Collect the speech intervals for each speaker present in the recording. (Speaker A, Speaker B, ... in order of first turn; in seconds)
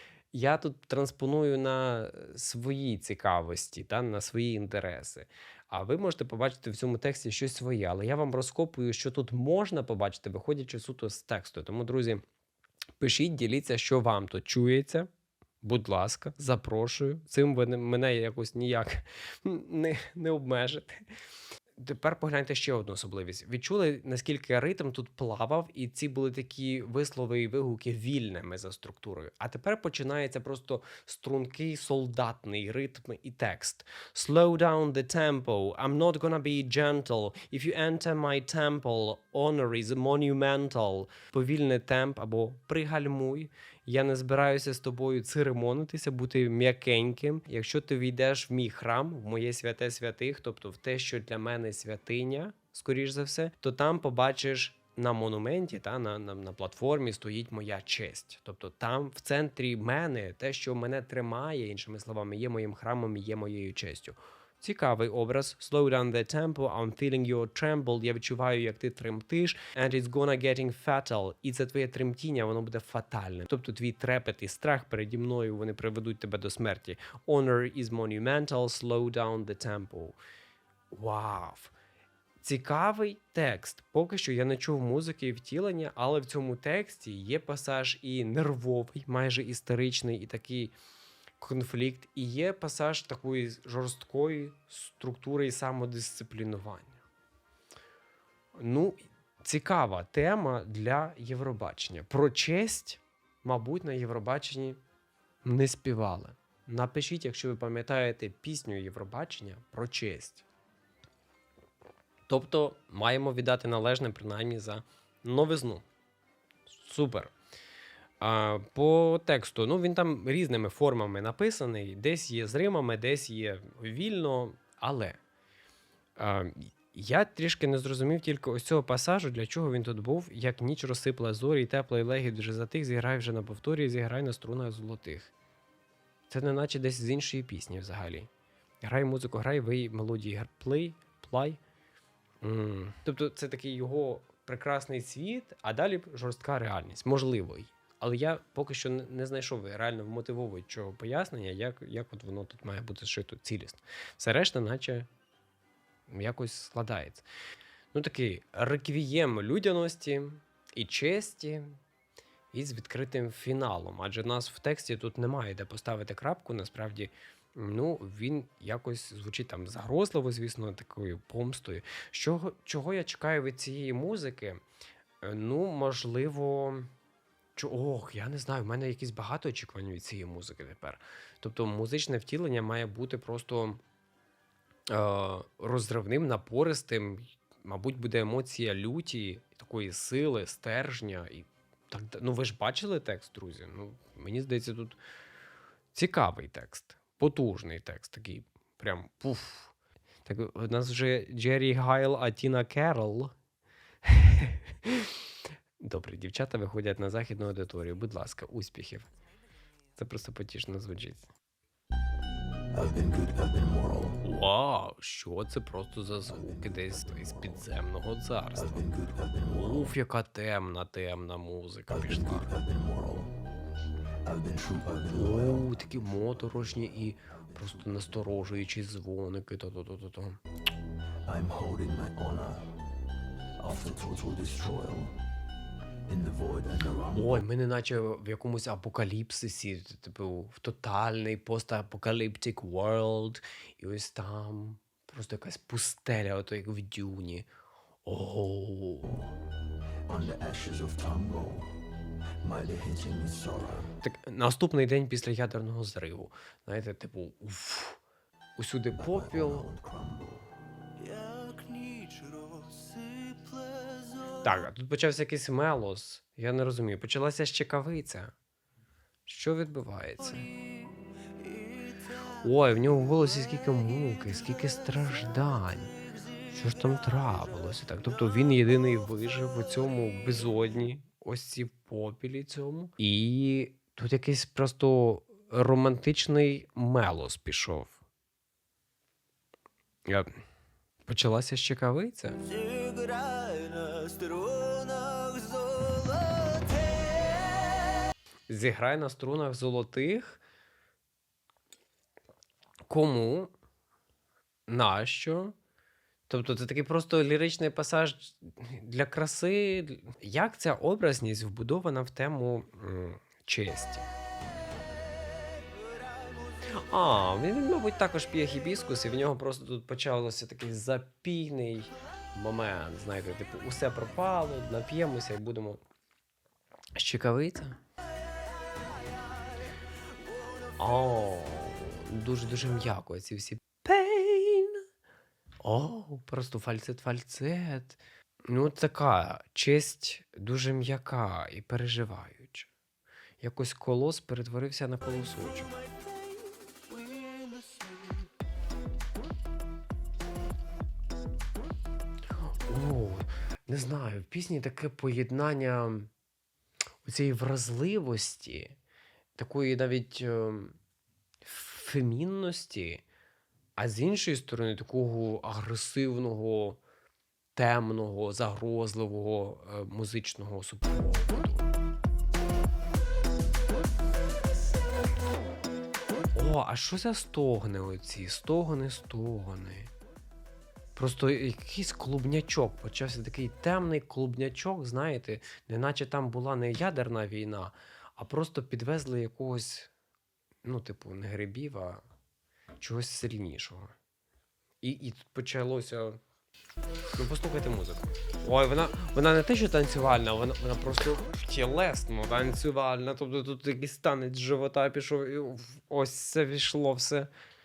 Speaker A: 0.3-12.2, 13.0-15.1, 15.6-21.0, 21.8-80.2, 80.9-81.7, 82.4-90.7, 91.4-97.0, 98.5-104.8, 105.4-110.4, 112.3-115.8, 116.7-117.3, 118.2-125.2, 126.2-135.3, 136.3-138.3, 138.8-141.6, 142.4-155.1, 156.1-157.2, 157.9-161.8, 162.5-174.6, 175.2-176.9, 177.6-183.8, 184.9-195.0, 195.9-199.7, 200.2-203.3, 204.0-205.2, 205.8-209.1, 209.9-211.2, 214.2-218.8, 219.5-222.5, 225.1-230.4, 237.1-247.5, 248.0-249.2, 254.0-258.0, 258.6-259.7, 264.4-268.3, 269.2-270.5, 272.4-275.9, 276.5-288.0, 291.1-292.4, 298.5-300.4, 302.9-303.5, 304.7-305.5, 306.3-314.1, 316.7-325.8, 326.9-327.8, 330.8-334.8, 335.6-342.7, 343.4-345.7, 352.5-356.1, 357.0-358.8, 359.4-360.8, 361.4-363.0, 363.8-366.8, 367.6-371.7, 376.3-379.9, 380.9-389.9, 390.6-392.0, 392.8-393.9, 394.8-396.2, 397.1-407.3
Speaker B: 212.7-214.2, 216.3-217.5, 218.5-219.9, 221.9-223.3, 224.2-225.7, 231.2-232.7, 233.6-235.2, 236.1-237.4, 250.1-251.8, 252.4-253.9, 258.9-260.5
Speaker C: 261.0-264.5, 270.2-272.3, 276.8-277.5, 292.4-298.1, 315.4-316.8, 328.4-331.2, 345.7-348.3